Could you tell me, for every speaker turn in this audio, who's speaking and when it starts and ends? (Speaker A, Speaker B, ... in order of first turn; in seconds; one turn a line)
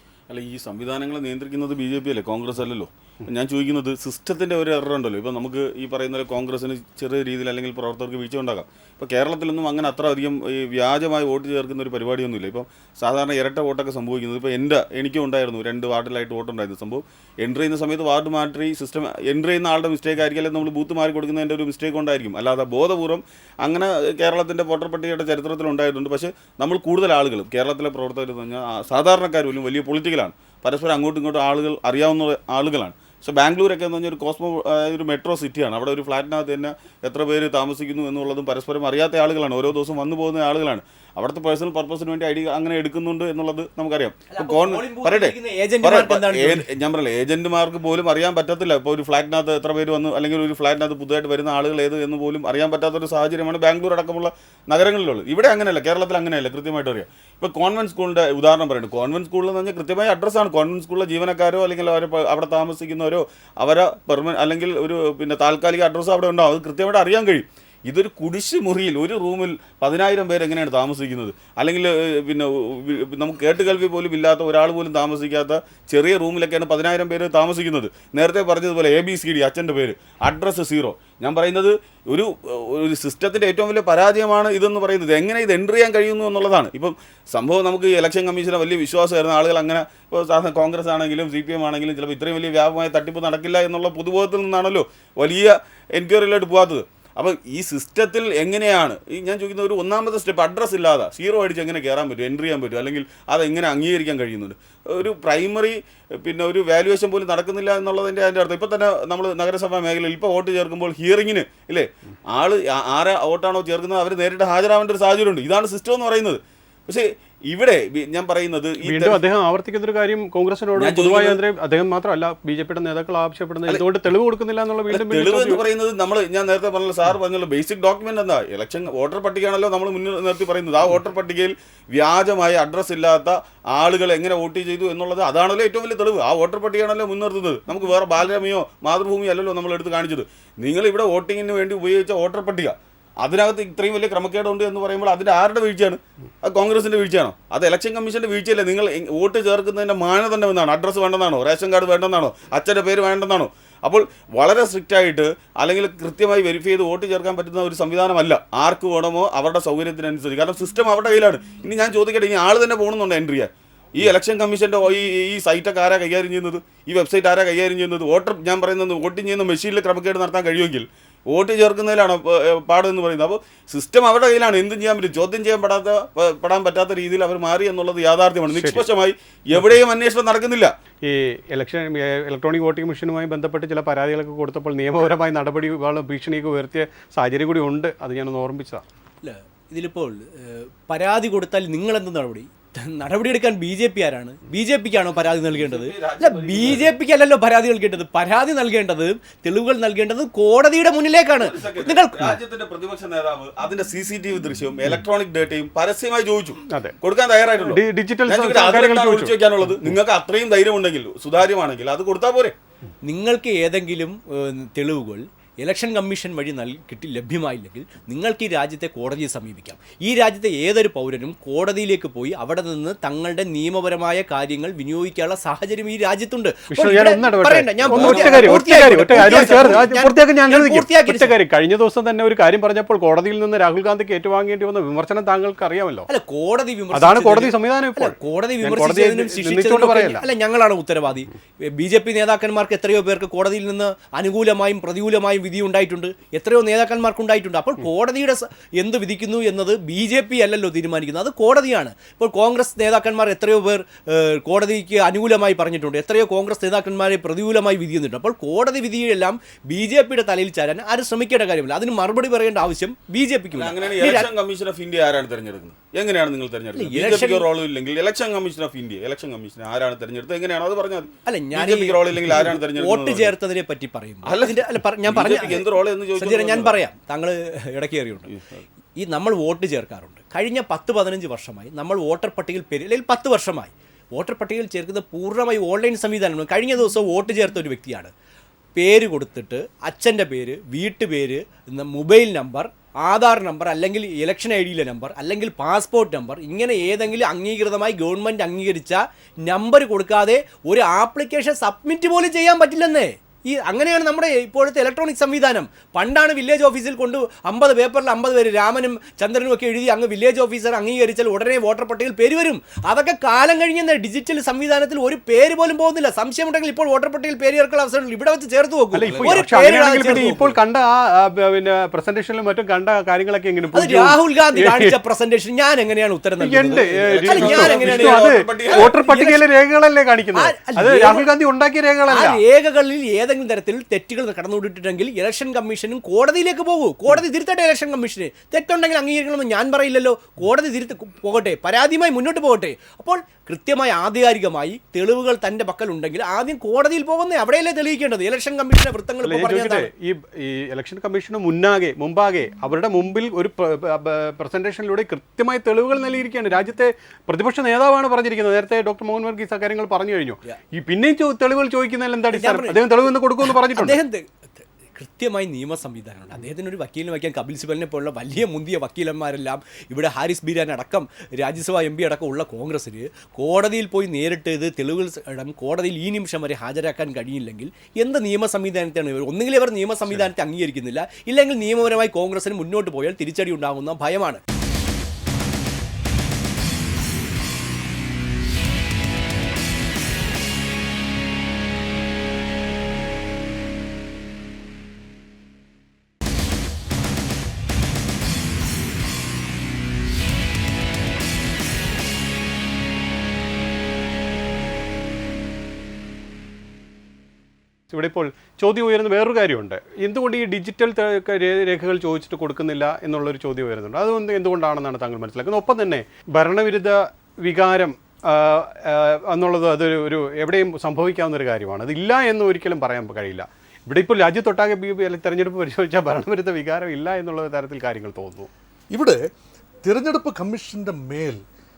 Speaker A: 0.3-119.2
Speaker B: 44.3-46.6
Speaker C: 118.8-125.6
Speaker A: 120.8-121.4
Speaker A: 124.9-180.7
Speaker C: 178.5-178.8
Speaker C: 181.0-188.8
Speaker B: 189.2-202.4
Speaker A: 195.6-196.9
Speaker A: 201.4-212.5
Speaker C: 207.6-209.3
Speaker B: 213.0-231.3
Speaker C: 226.7-236.1
Speaker A: 227.8-229.8
Speaker B: 236.1-264.3
Speaker C: 236.9-240.2
Speaker A: 263.5-273.3
Speaker B: 266.7-267.4
Speaker B: 271.2-278.3
Speaker A: 274.2-276.8
Speaker A: 278.3-278.6
Speaker B: 279.0-288.1
Speaker B: 288.8-320.6
Speaker C: 318.9-324.9
Speaker B: 323.7-329.4
Speaker C: 326.4-332.4
Speaker A: 327.0-328.9
Speaker B: 330.3-331.3
Speaker B: 332.1-349.9
Speaker C: 349.2-364.0
Speaker B: 362.3-384.4
Speaker C: 407.9-428.5
Speaker D: 428.9-429.3
Speaker D: 429.8-431.4